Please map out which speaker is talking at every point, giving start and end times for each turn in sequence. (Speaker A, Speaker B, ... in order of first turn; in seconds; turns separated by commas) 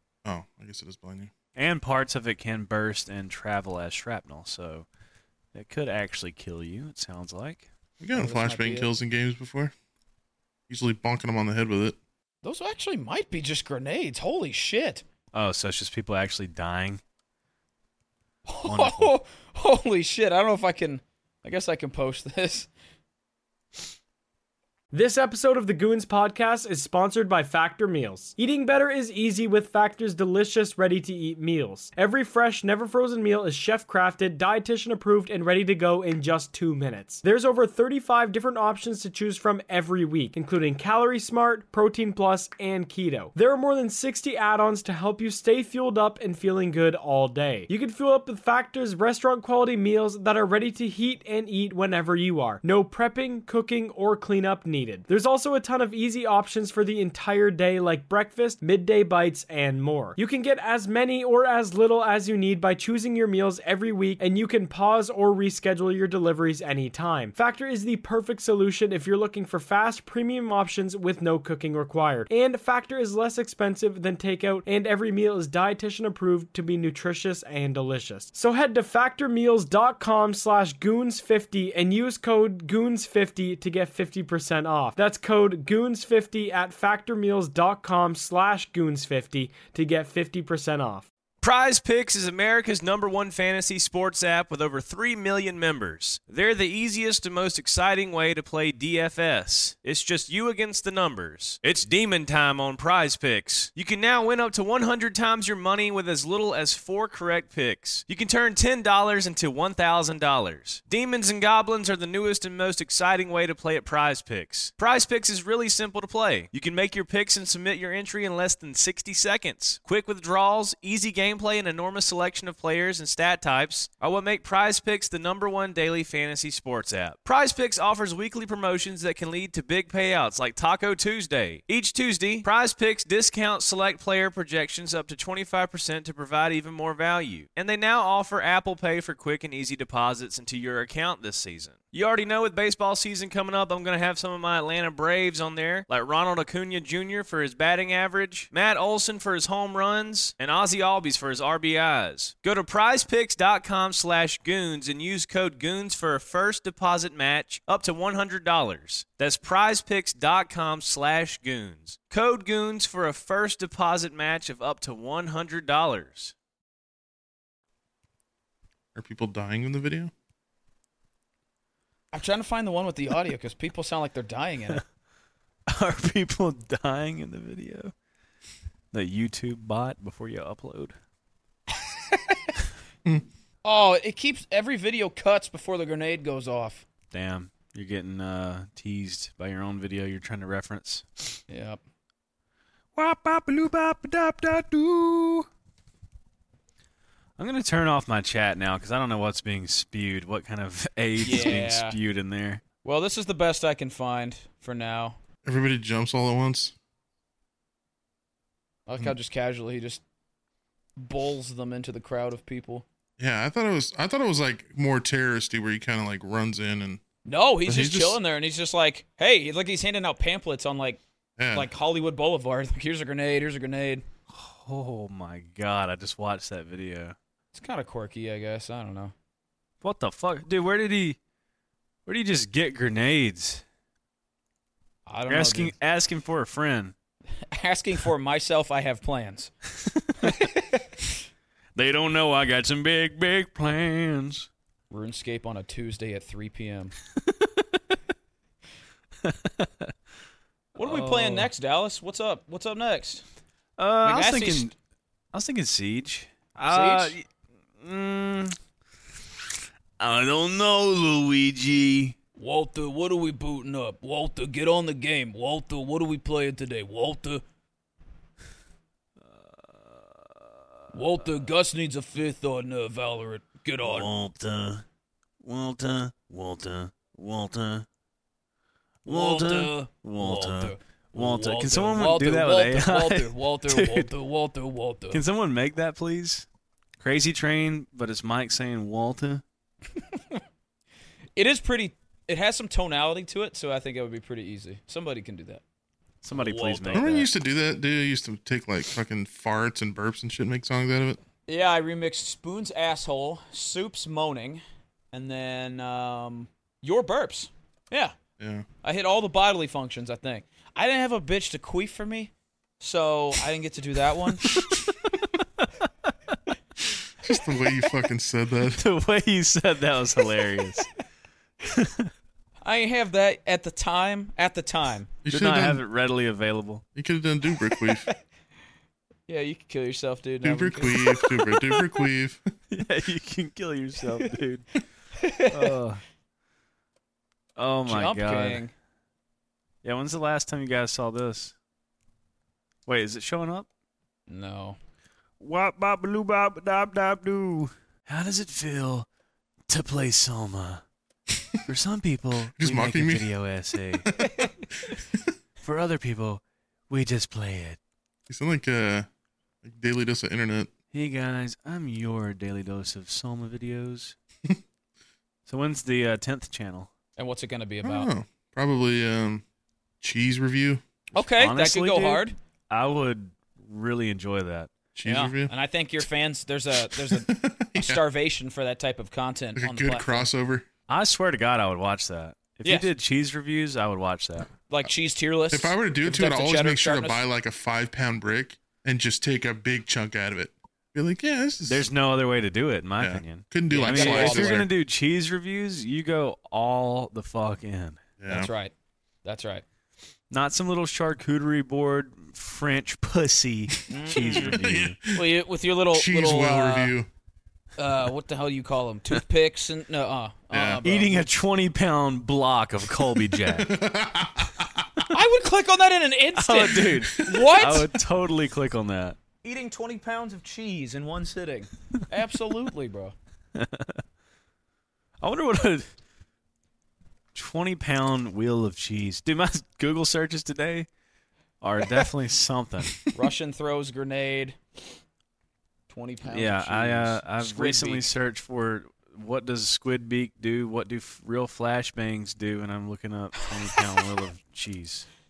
Speaker A: 0.2-1.3, Speaker B: 1.5-4.9, Speaker B: 5.5-7.7, Speaker A: 8.0-9.7, Speaker C: 8.1-8.9, Speaker A: 10.7-12.0, Speaker C: 12.4-15.0, Speaker B: 15.3-17.0, Speaker C: 18.4-22.7, Speaker B: 18.6-19.1, Speaker D: 24.9-91.1, Speaker B: 91.4-166.3, Speaker A: 168.9-170.1, Speaker C: 172.1-174.8, Speaker B: 175.7-177.9, Speaker B: 178.9-180.9, Speaker C: 181.7-182.5, Speaker C: 183.6-186.8, Speaker B: 187.1-191.4, Speaker C: 191.5-191.8, Speaker B: 192.9-195.5, Speaker B: 197.4-202.6, Speaker C: 201.2-202.0, Speaker C: 202.8-205.2, Speaker A: 205.4-206.7, Speaker C: 208.9-210.0, Speaker C: 211.0-212.8, Speaker A: 213.2-217.0, Speaker C: 217.2-221.0, Speaker A: 217.7-218.2, Speaker A: 221.4-221.7, Speaker C: 221.5-224.0, Speaker B: 224.3-227.2, Speaker C: 227.5-229.1, Speaker B: 229.8-231.2, Speaker B: 232.1-233.6, Speaker C: 235.1-235.7, Speaker B: 235.3-236.9, Speaker C: 237.4-239.5, Speaker B: 239.9-240.4, Speaker C: 240.2-240.9, Speaker B: 241.7-244.5, Speaker C: 244.9-246.9, Speaker B: 247.3-247.8, Speaker B: 249.2-249.9, Speaker C: 250.7-253.2, Speaker B: 250.8-251.5, Speaker B: 253.8-254.7, Speaker C: 254.0-254.7, Speaker B: 255.3-257.3, Speaker C: 256.7-257.1, Speaker B: 257.8-258.6, Speaker B: 260.0-262.1, Speaker C: 262.4-267.4, Speaker B: 269.3-270.0, Speaker C: 270.9-274.1, Speaker B: 273.8-274.8, Speaker B: 275.4-277.9, Speaker B: 279.0-284.1, Speaker C: 279.1-285.2, Speaker B: 285.1-286.5, Speaker B: 287.0-289.4, Speaker C: 291.4-295.6, Speaker B: 296.2-297.3, Speaker C: 296.3-297.1, Speaker A: 296.9-301.2, Speaker C: 301.5-308.1, Speaker A: 308.4-308.7, Speaker C: 308.8-314.5, Speaker B: 314.5-315.9, Speaker A: 317.2-318.8, Speaker B: 318.8-320.9, Speaker B: 321.7-322.1, Speaker C: 322.6-325.1, Speaker A: 325.2-325.8, Speaker B: 325.3-326.8, Speaker A: 326.9-328.1, Speaker C: 327.8-328.1, Speaker C: 329.3-331.3, Speaker A: 330.4-332.5, Speaker B: 332.7-334.8, Speaker C: 335.2-335.8, Speaker B: 335.5-336.0, Speaker B: 337.6-338.6, Speaker C: 337.9-338.7, Speaker B: 339.8-341.5, Speaker B: 342.9-343.7, Speaker C: 344.3-344.8, Speaker B: 345.4-349.1, Speaker B: 349.7-350.8, Speaker B: 351.6-354.1, Speaker A: 352.5-353.3, Speaker B: 355.6-357.8, Speaker A: 358.3-359.1, Speaker A: 359.6-360.7, Speaker B: 360.9-364.1, Speaker B: 365.5-366.9, Speaker C: 367.2-368.1, Speaker A: 367.8-369.4, Speaker A: 370.0-370.8, Speaker C: 371.1-372.3, Speaker B: 371.1-374.7, Speaker A: 374.9-375.5, Speaker C: 375.0-380.3, Speaker A: 376.9-378.0, Speaker A: 379.6-380.6, Speaker B: 380.9-384.5, Speaker C: 382.6-382.9, Speaker C: 384.7-387.2, Speaker A: 385.5-391.9, Speaker B: 391.6-398.0, Speaker A: 393.0-394.7, Speaker C: 393.7-394.6, Speaker A: 398.2-398.5, Speaker C: 398.3-398.7, Speaker C: 399.2-399.6, Speaker B: 400.3-405.0, Speaker C: 403.9-404.6, Speaker A: 404.1-405.3, Speaker C: 405.1-406.9, Speaker A: 405.9-407.1, Speaker C: 407.8-411.3, Speaker A: 410.5-410.8, Speaker B: 410.8-413.7, Speaker A: 413.3-415.0, Speaker C: 415.1-417.9, Speaker B: 416.4-419.2, Speaker C: 419.4-423.1, Speaker B: 423.5-424.0, Speaker B: 425.2-425.9, Speaker B: 427.3-430.9, Speaker B: 431.6-433.0, Speaker C: 433.1-434.6, Speaker C: 435.9-438.1, Speaker B: 436.3-445.1